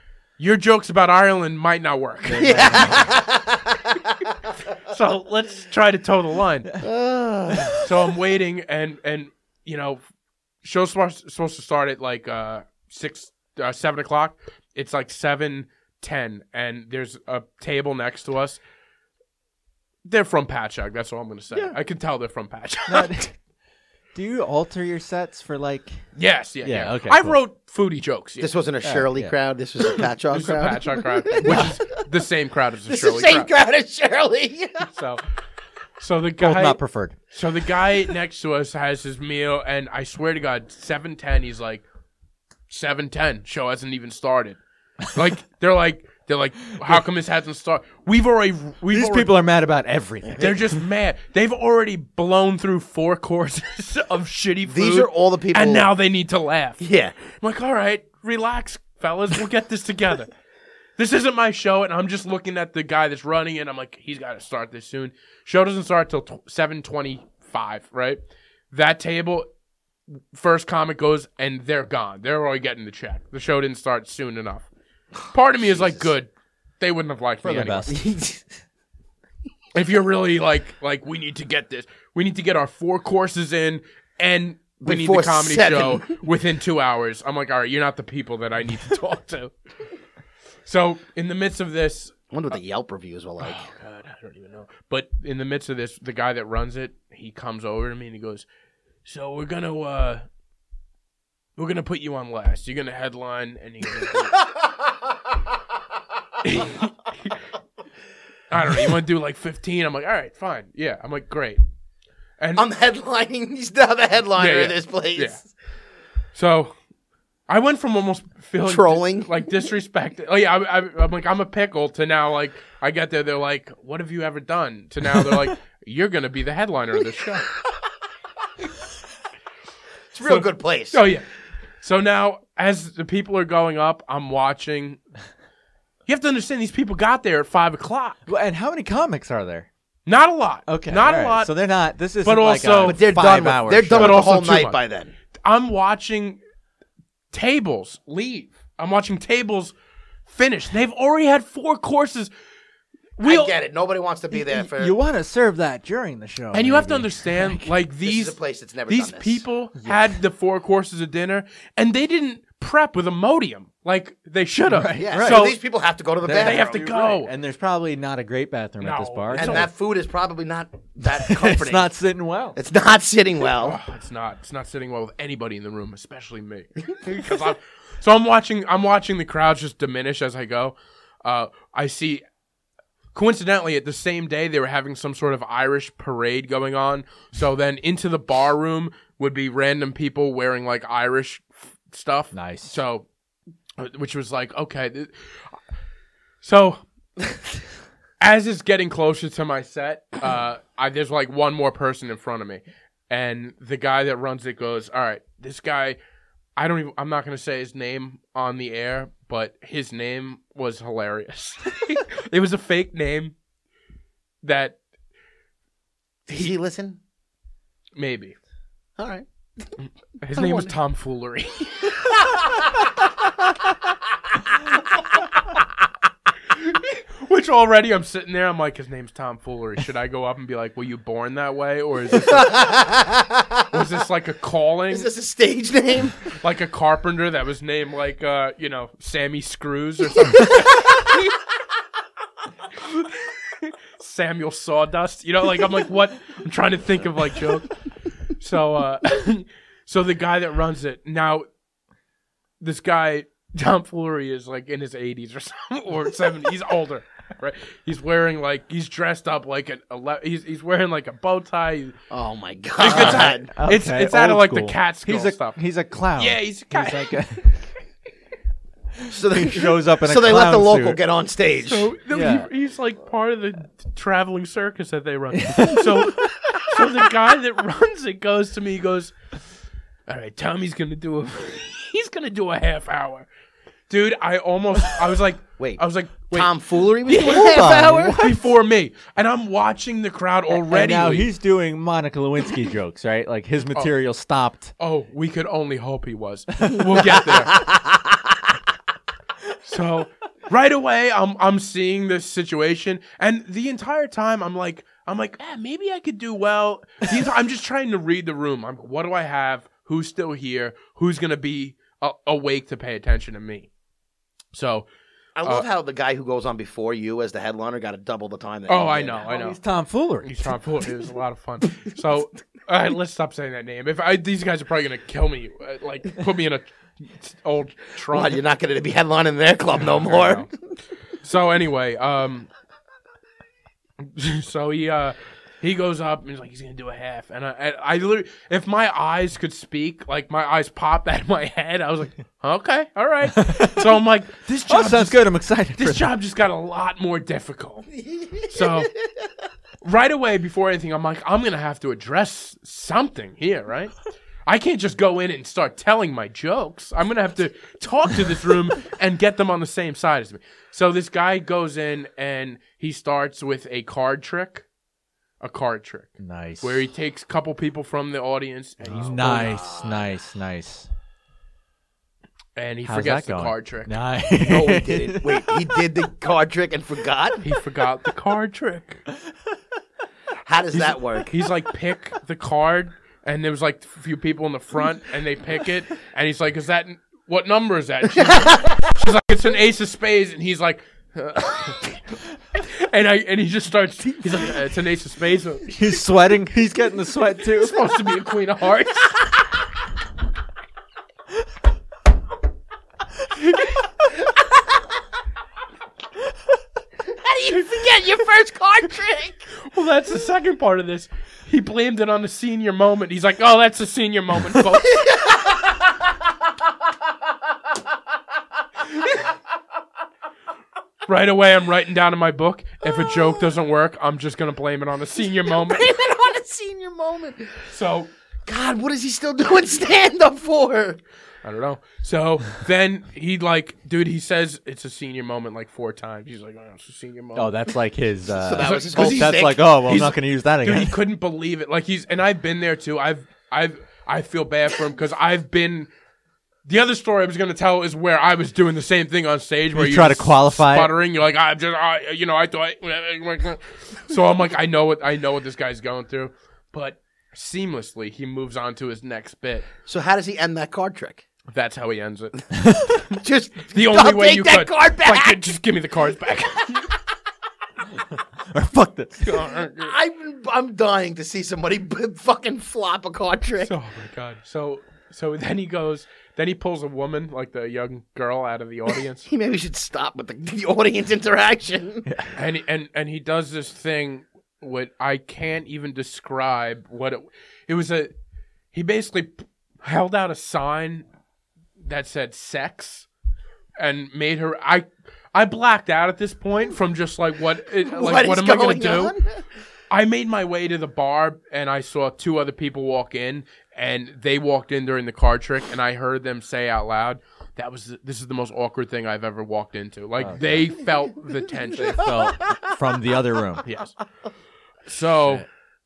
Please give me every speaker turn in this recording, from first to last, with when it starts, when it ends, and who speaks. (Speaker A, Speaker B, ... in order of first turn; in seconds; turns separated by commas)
Speaker A: 0.4-3.1, Speaker B: 2.2-3.1, Speaker C: 2.4-4.2, Speaker A: 4.8-6.7, Speaker C: 6.8-7.9, Speaker A: 7.8-10.0, Speaker A: 10.6-18.6, Speaker A: 20.0-23.2, Speaker B: 22.9-23.4, Speaker B: 24.1-26.0, Speaker A: 26.1-28.5, Speaker B: 26.6-27.4, Speaker C: 28.4-31.8, Speaker B: 28.8-29.3, Speaker A: 30.3-33.5, Speaker B: 31.4-31.7, Speaker C: 32.9-34.9, Speaker A: 34.9-35.2, Speaker A: 36.0-36.8, Speaker B: 36.4-37.2, Speaker A: 37.3-41.8, Speaker A: 42.7-44.6, Speaker A: 45.1-49.3, Speaker B: 48.9-50.8, Speaker A: 50.4-60.3, Speaker C: 54.6-55.9, Speaker C: 56.8-57.2, Speaker A: 61.0-68.2, Speaker A: 68.7-69.5, Speaker A: 70.3-74.7, Speaker A: 75.3-77.9, Speaker C: 75.7-76.0, Speaker B: 77.4-78.1, Speaker C: 77.9-78.4, Speaker A: 79.7-89.5, Speaker C: 84.8-86.2, Speaker A: 90.6-92.1, Speaker C: 92.3-93.7, Speaker A: 93.4-98.5, Speaker A: 99.0-100.2, Speaker A: 101.6-104.4, Speaker A: 106.4-107.4, Speaker A: 108.5-111.6, Speaker A: 112.4-112.6, Speaker C: 112.5-115.5, Speaker A: 114.4-115.4, Speaker A: 116.3-116.7, Speaker A: 117.5-127.5, Speaker C: 118.6-119.3, Speaker C: 130.1-131.0, Speaker A: 130.2-131.2, Speaker A: 131.8-135.0, Speaker A: 136.1-138.2, Speaker B: 138.3-139.7, Speaker A: 140.1-141.5, Speaker B: 140.7-144.3, Speaker A: 142.2-143.0, Speaker C: 142.8-145.1, Speaker A: 143.9-144.8, Speaker A: 145.4-146.4, Speaker A: 147.3-149.7, Speaker A: 150.3-152.3, Speaker A: 153.2-153.5, Speaker C: 153.2-155.0, Speaker B: 154.3-157.7, Speaker A: 156.5-158.4, Speaker C: 158.0-159.4, Speaker A: 158.9-165.6, Speaker B: 159.8-160.1, Speaker B: 164.7-165.4, Speaker C: 165.0-166.9, Speaker B: 166.2-169.7, Speaker A: 166.3-167.3, Speaker A: 168.8-169.7, Speaker C: 169.3-171.9, Speaker B: 171.2-172.6, Speaker C: 172.6-173.8, Speaker A: 173.6-182.2, Speaker A: 183.1-193.1, Speaker B: 192.3-192.8, Speaker A: 193.8-195.6, Speaker A: 196.4-196.8, Speaker A: 198.2-206.0, Speaker A: 206.6-213.3, Speaker A: 214.4-214.8, Speaker C: 216.3-217.0, Speaker A: 217.9-218.3, Speaker C: 219.0-219.2, Speaker A: 220.2-222.0, Speaker C: 220.3-220.7, Speaker C: 222.2-222.6, Speaker A: 226.5-232.6, Speaker C: 232.3-233.8, Speaker A: 233.7-235.1, Speaker C: 234.9-236.3, Speaker A: 236.4-241.0, Speaker A: 242.8-247.8, Speaker A: 248.4-251.4, Speaker A: 252.6-261.9, Speaker C: 262.1-263.5, Speaker A: 262.8-265.6, Speaker B: 262.8-267.6, Speaker A: 266.2-267.1, Speaker B: 269.1-271.0, Speaker C: 269.1-271.9, Speaker A: 271.6-279.1, Speaker B: 272.1-272.5, Speaker B: 275.3-276.6, Speaker A: 280.1-283.3, Speaker A: 283.9-286.5, Speaker C: 285.6-288.2, Speaker A: 287.0-291.3, Speaker B: 287.2-288.4, Speaker B: 290.5-294.7, Speaker A: 294.8-297.6, Speaker C: 297.5-298.1, Speaker A: 299.6-313.7, Speaker A: 314.5-314.9, Speaker C: 315.4-319.3, Speaker A: 318.7-319.6, Speaker B: 319.2-320.6, Speaker A: 320.2-328.4, Speaker C: 328.1-330.5, Speaker A: 329.8-330.5, Speaker A: 331.2-332.5, Speaker A: 334.0-347.9, Speaker B: 343.3-343.9, Speaker B: 344.7-346.1, Speaker C: 348.0-348.8, Speaker A: 348.5-348.9, Speaker A: 349.8-364.6, Speaker A: 365.4-369.6, Speaker B: 366.2-366.9, Speaker B: 368.8-370.9, Speaker C: 369.1-370.0, Speaker A: 372.6-373.9, Speaker B: 372.8-375.8, Speaker C: 374.4-377.4, Speaker A: 377.4-379.0, Speaker C: 380.4-381.3, Speaker A: 380.7-392.0, Speaker C: 388.2-388.9, Speaker A: 392.5-395.8, Speaker B: 395.7-397.9, Speaker A: 397.6-399.2, Speaker C: 407.1-409.4, Speaker A: 409.6-415.1, Speaker C: 415.0-415.8, Speaker A: 421.1-425.9, Speaker C: 425.4-427.7, Speaker A: 427.7-428.1, Speaker C: 428.4-431.0, Speaker A: 431.4-437.5, Speaker B: 437.3-441.0, Speaker C: 438.3-439.8, Speaker A: 438.6-445.9, Speaker A: 446.6-459.7, Speaker B: 449.7-450.9, Speaker C: 459.9-461.2, Speaker A: 461.5-462.4, Speaker B: 462.6-462.9, Speaker C: 463.1-465.5, Speaker A: 463.7-466.9, Speaker B: 468.1-469.4, Speaker A: 469.2-469.9, Speaker C: 469.8-473.7, Speaker A: 473.6-479.3, Speaker C: 479.3-482.1, Speaker B: 482.1-482.3, Speaker A: 482.3-488.1, Speaker A: 488.7-491.1, Speaker A: 491.8-493.1, Speaker A: 493.8-499.1, Speaker C: 497.8-499.4, Speaker A: 499.9-512.1, Speaker B: 510.2-510.7, Speaker B: 511.8-513.6, Speaker C: 512.1-512.6, Speaker A: 513.6-513.9, Speaker A: 514.9-515.4